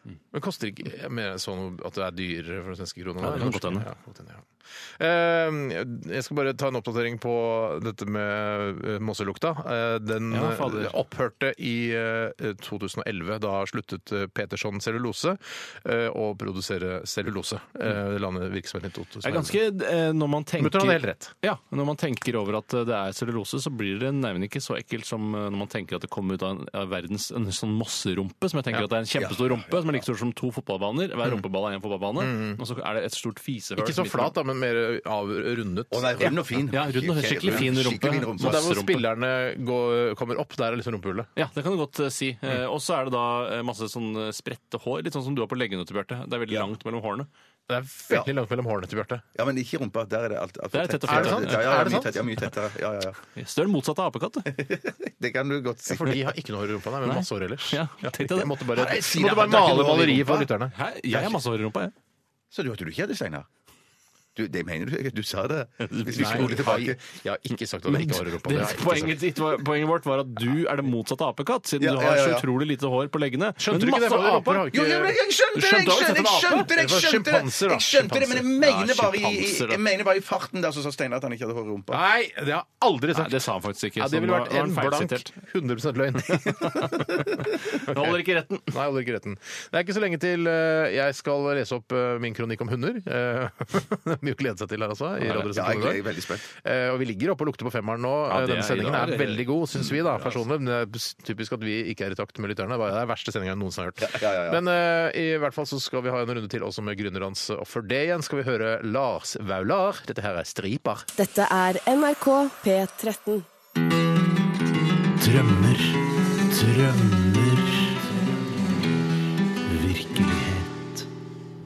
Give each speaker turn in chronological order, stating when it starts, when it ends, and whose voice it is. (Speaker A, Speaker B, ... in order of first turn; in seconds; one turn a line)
Speaker A: 0.3-19.6
Speaker B: 3.2-3.9
Speaker B: 10.3-10.9
Speaker B: 19.2-34.3
Speaker A: 20.6-21.3
Speaker C: 29.1-30.0
Speaker A: 32.2-32.6
Speaker A: 33.8-36.4
Speaker C: 35.9-38.7
Speaker B: 36.7-39.0
Speaker A: 38.4-41.3
Speaker B: 41.4-47.3
Speaker A: 47.7-49.2
Speaker C: 49.3-53.2
Speaker B: 50.7-52.1
Speaker A: 51.1-52.2
Speaker B: 53.3-54.5
Speaker C: 54.5-56.2
Speaker A: 55.9-60.7
Speaker B: 57.0-58.5
Speaker C: 58.7-60.5
Speaker B: 60.7-61.9
Speaker C: 61.1-61.4
Speaker C: 62.5-63.5
Speaker C: 64.3-67.2
Speaker B: 65.8-66.8
Speaker A: 66.1-69.2
Speaker B: 67.9-74.7
Speaker C: 71.8-72.5
Speaker A: 73.6-75.2
Speaker C: 74.7-82.0
Speaker B: 75.5-76.7
Speaker A: 75.8-78.5
Speaker B: 78.6-79.8
Speaker A: 81.9-96.0
Speaker B: 83.1-85.3
Speaker B: 86.3-88.7
Speaker C: 95.3-96.4
Speaker A: 96.6-111.1
Speaker B: 98.3-99.5
Speaker C: 104.0-104.6
Speaker D: 111.2-113.5
Speaker B: 115.2-118.0
Speaker B: 119.7-120.9